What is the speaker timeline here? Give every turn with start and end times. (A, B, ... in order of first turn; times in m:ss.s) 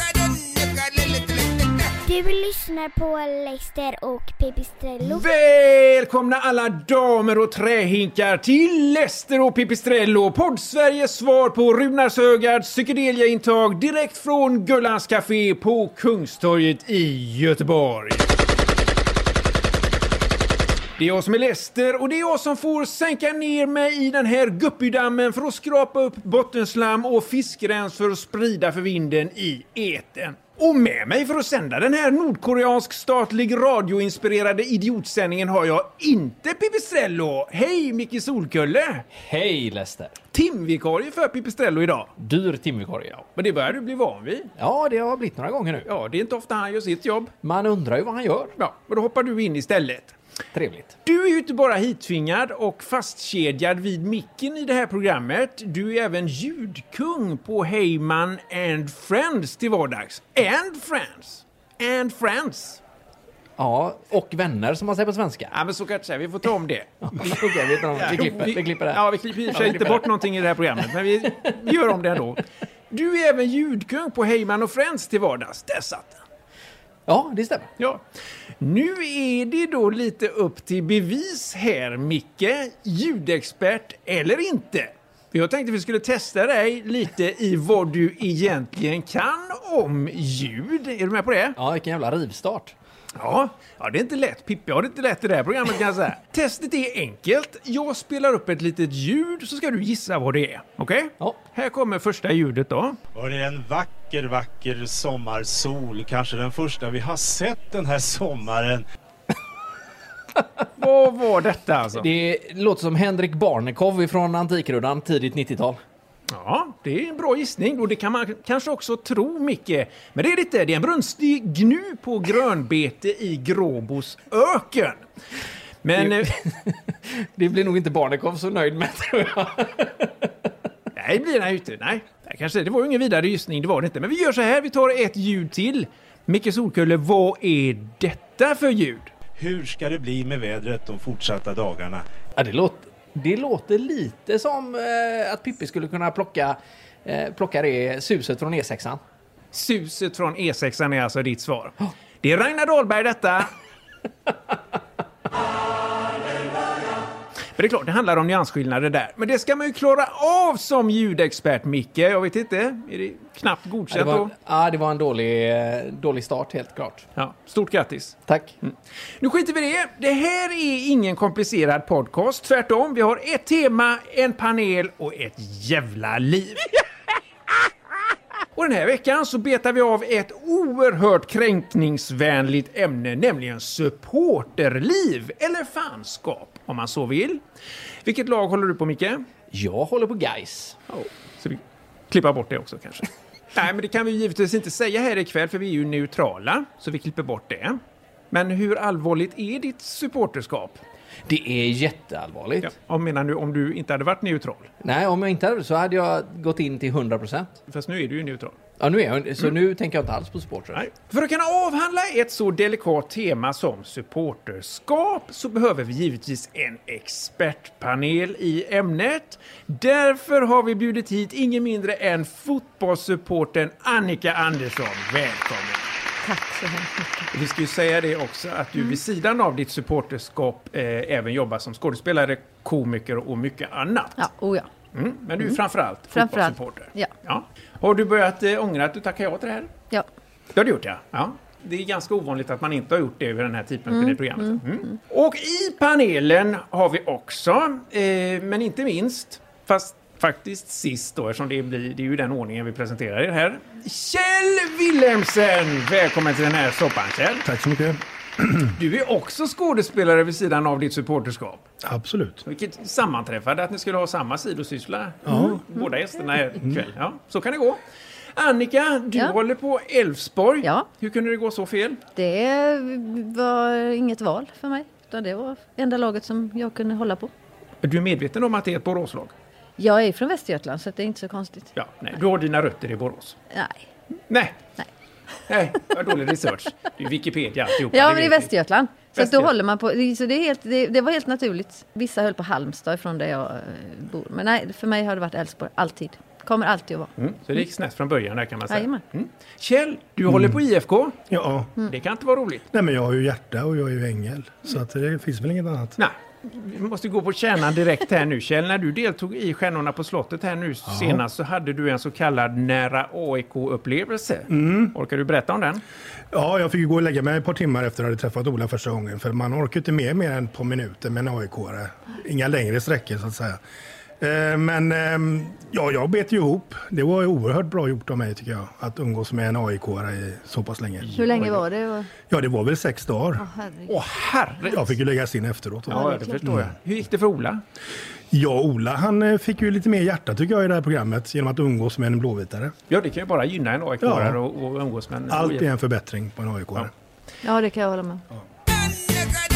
0:02.0-0:05.3 A
0:05.0-0:18.3 B
0:21.0-0:39.1 B
0:39.1-0:40.2 C
0:40.3-0:42.1 B
0:42.2-0:43.2 C
0:43.2-0:44.5 B
0:44.6-0:45.9 C
0:45.9-0:47.3 B
0:47.4-0:48.5 C
0:48.6-0:50.2 B
0:50.5-0:51.0 C
0:51.0-1:02.8 B
1:03.6-1:05.5 C
1:05.5-1:16.2 B
1:07.0-1:10.2 C
1:17.1-1:17.7 C
1:18.6-1:31.6 B
1:31.6-1:32.7 C
1:33.2-1:43.0 B
1:43.1-1:48.8 D
1:50.8-1:52.1 B
1:52.0-1:55.8 C
1:56.3-2:05.0 B
2:05.8-2:06.4 B
2:06.0-2:10.3 C
2:11.0-2:19.1 B
2:19.4-2:22.0 D
2:22.4-2:29.0 C
2:29.5-2:33.5 B
2:37.6-2:44.3 B
2:43.9-2:47.1 C
2:47.2-2:56.8 B
2:48.3-2:48.5 C
2:58.6-3:07.4 B
3:08.0-3:09.2 B
3:09.5-3:10.8 C
3:10.9-3:17.8 B
3:18.3-3:20.8 B
3:21.3-3:22.7 C
3:22.6-3:24.7 B
3:24.8-3:27.5 C
3:27.7-3:28.6 B
3:28.8-3:30.8 C
3:30.7-3:45.9 B
3:46.2-3:47.3 E
3:47.3-3:54.2 B
3:54.2-3:54.7 E
3:54.9-3:59.7 B
3:56.1-3:57.1 E
4:00.6-4:17.5 B
4:03.9-4:04.6 E
4:17.4-4:18.7 F
4:18.8-4:21.6 B
4:21.8-4:22.4 F
4:22.5-4:27.8 B
4:25.3-4:25.6 F
4:28.4-4:32.0 B
4:32.2-4:37.3 E
4:37.8-4:39.3 B
4:39.8-4:41.7 E
4:41.8-4:43.4 B
4:43.5-4:43.8 E
4:44.3-4:44.6 B
4:45.5-4:48.5 B
4:47.9-4:57.1 E
4:49.1-4:49.5 B
4:57.2-5:01.2 B
4:58.7-4:59.0 E
5:00.3-5:00.6 F
5:01.3-5:01.7 F
5:01.8-5:02.7 B
5:02.7-5:06.0 F
5:06.0-5:15.8 B
5:10.9-5:11.2 F
5:14.5-5:14.9 F
5:16.3-5:23.6 F
5:24.2-5:31.6 F
5:31.1-5:32.1 E
5:31.2-5:31.5 B
5:32.3-5:33.4 F
5:33.4-5:33.9 E
5:33.9-5:34.9 B
5:34.6-5:36.7 F
5:35.9-5:37.6 B
5:35.9-5:36.3 E
5:38.3-5:42.7 F
5:42.9-5:45.7 B
5:44.0-5:44.4 F
5:45.3-5:46.9 F
5:47.4-5:48.2 E